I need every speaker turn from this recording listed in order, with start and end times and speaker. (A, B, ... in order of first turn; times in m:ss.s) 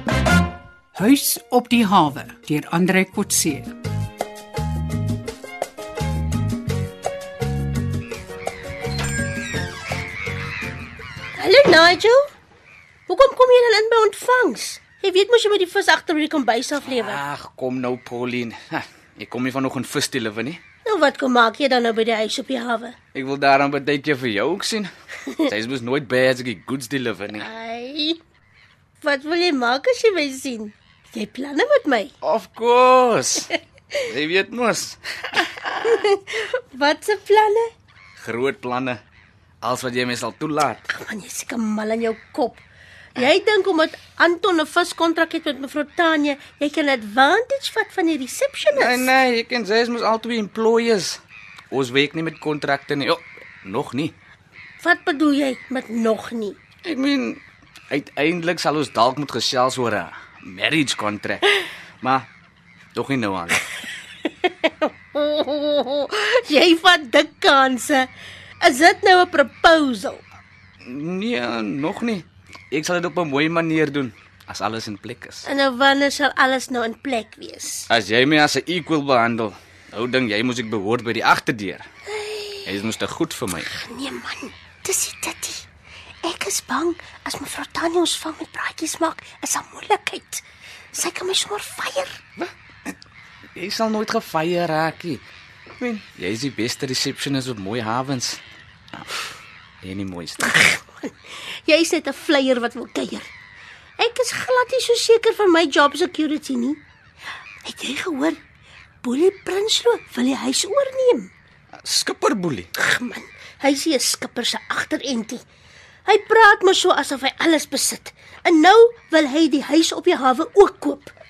0:01.0-0:03.7 A
0:11.4-0:12.2 B
0:13.1-0:17.2 B
0:16.9-0:20.6 C
0:20.8-0:23.0 B
0:23.1-0:24.9 C
0:25.5-0:27.5 C
0:27.4-0:28.2 B
0:29.0-0:32.1 B
0:32.2-0:33.5 C
0:34.1-0:35.0 C
0:35.8-0:37.7 B
0:38.2-0:39.0 C
0:39.6-0:40.8 C
0:40.9-0:42.6 B
0:43.2-0:49.1 B
0:48.7-0:51.2 C
0:51.7-0:54.1 C
0:54.8-0:56.6 B
0:56.8-1:02.3 C
1:03.0-1:03.6 C
1:04.4-1:08.1 B
1:08.6-1:10.2 B
1:10.8-1:15.5 C
1:15.4-1:17.9 B
1:17.9-1:21.8 C
1:22.1-1:22.8 B
1:22.7-1:23.7 C
1:23.7-1:25.7 B
1:26.2-1:32.2 B
1:32.4-1:32.9 C
1:33.6-1:35.2 C
1:35.8-1:38.4 C
1:39.8-1:40.6 C
1:40.4-1:41.1 B
1:41.7-1:43.3 B
1:44.0-1:46.8 B
1:47.6-1:48.4 B
1:49.0-1:51.3 B
1:51.8-1:52.7 C
1:52.8-1:55.4 B
1:56.1-2:01.1 B